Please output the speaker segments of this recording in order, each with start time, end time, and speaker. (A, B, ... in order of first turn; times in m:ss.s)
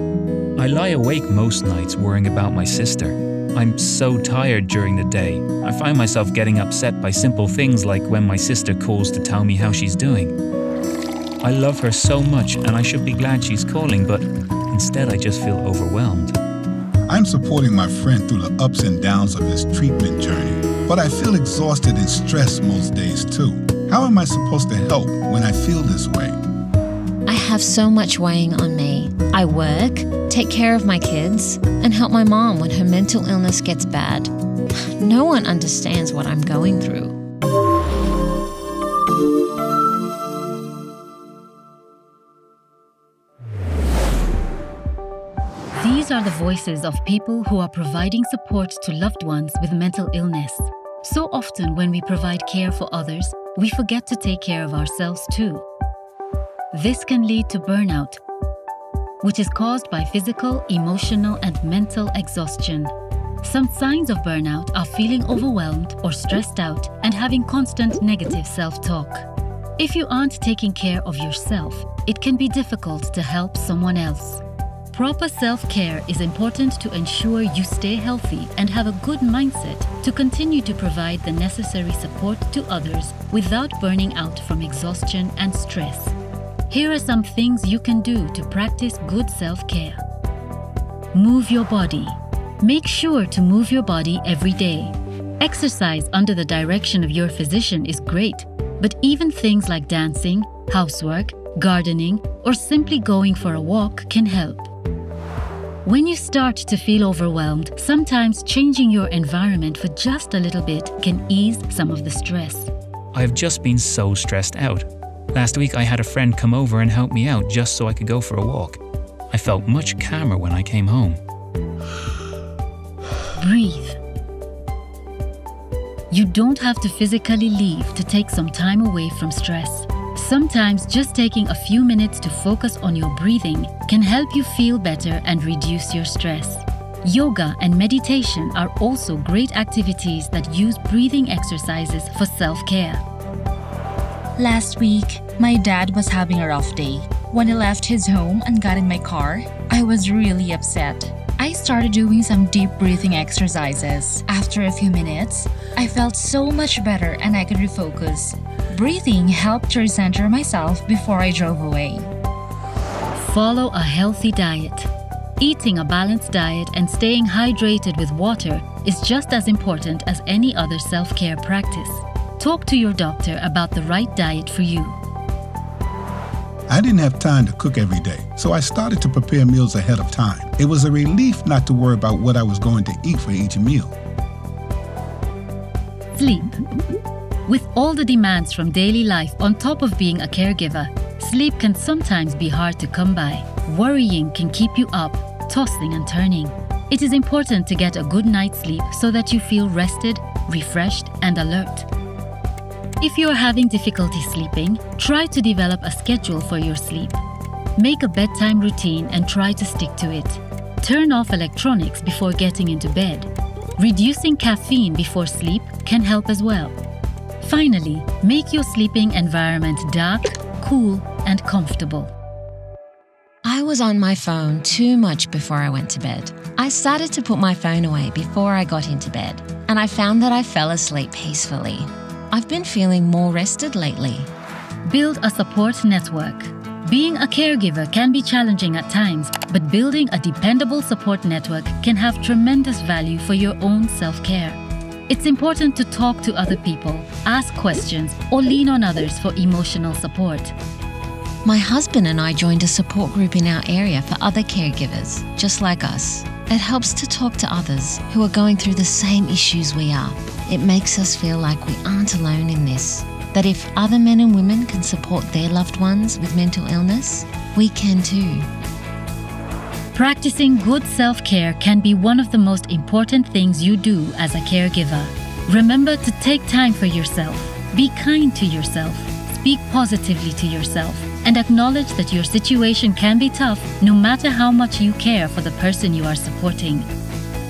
0:00.6-0:10.3 A
0:11.4-0:16.4 A
0:17.1-0:26.4 B
0:27.2-0:37.2 C
0:45.8-0:55.6 D
0:56.7-0:58.2 D
0:59.2-1:09.3 D
1:09.8-1:26.2 D
1:26.7-1:30.0 D
1:31.1-1:44.7 D
1:45.8-1:52.7 D
1:53.1-1:58.8 A
1:59.3-2:01.2 A
2:03.4-2:04.0 D
2:06.1-2:23.0 D
2:24.4-2:42.1 E
2:43.1-2:55.0 D
2:56.7-3:03.9 B
3:06.1-3:06.6 D
3:07.4-3:21.9 D
3:23.0-3:27.2 D
3:27.8-3:36.8 D
3:37.4-3:42.1 D
3:43.4-3:54.3 C
3:54.8-4:10.5 D
4:11.4-4:28.5 C
4:29.9-4:46.9 D